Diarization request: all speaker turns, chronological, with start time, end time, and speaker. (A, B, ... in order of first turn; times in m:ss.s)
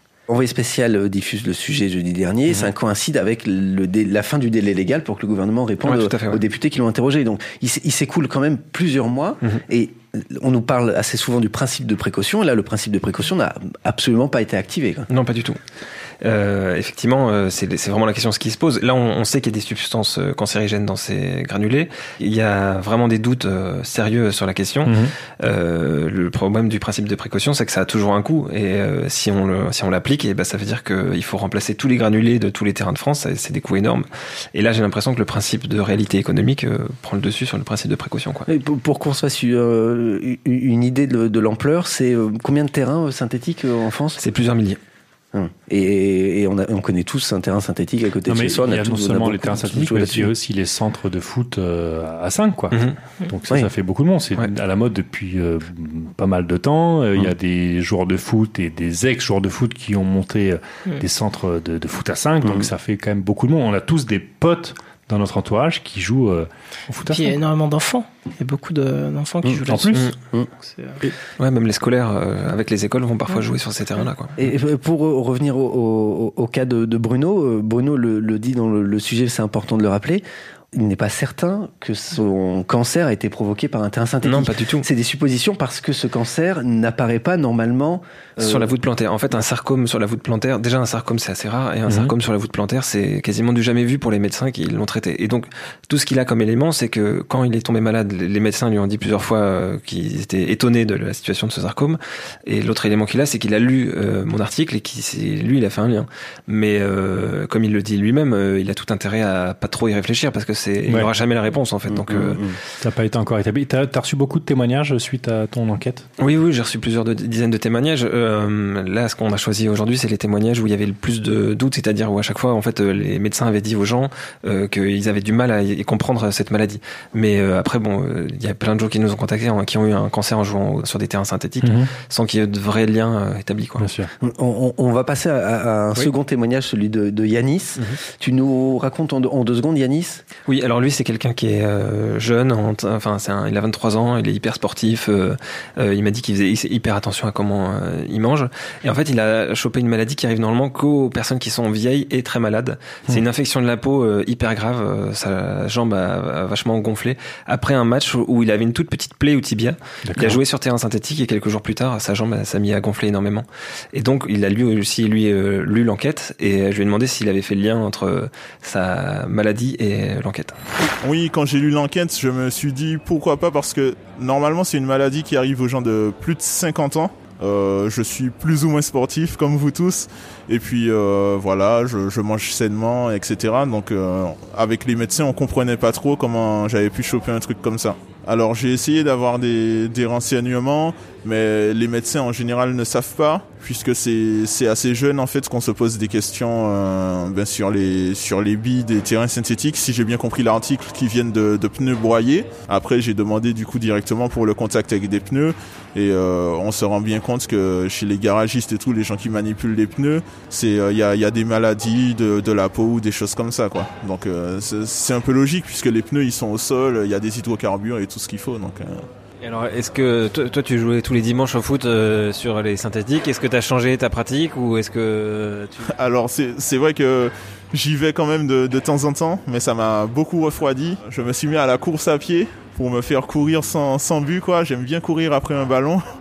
0:00.3-0:15.1 A
0:05.8-0:06.4 B
0:15.1-0:15.6 B
0:16.2-0:38.5 B
0:24.8-0:25.1 C
0:38.5-0:44.2 A
0:44.2-0:44.8 B
0:45.3-0:50.3 A
0:48.3-1:07.4 C
0:52.7-0:53.0 B
1:07.1-1:10.1 D
1:09.7-1:10.0 C
1:10.6-1:11.0 D
1:11.4-1:14.4 B
1:14.4-1:28.7 A
1:24.2-1:24.9 B
1:28.4-1:52.6 B
1:31.9-1:32.1 C
1:51.9-1:52.6 A
1:52.8-1:56.1 C
1:56.2-2:13.9 B
2:11.6-2:11.9 C
2:13.8-2:14.1 C
2:14.2-2:20.2 A
2:20.5-2:50.6 B
2:40.0-2:40.4 C
2:51.0-3:39.0 E
3:39.4-3:45.9 B
3:45.8-3:56.0 E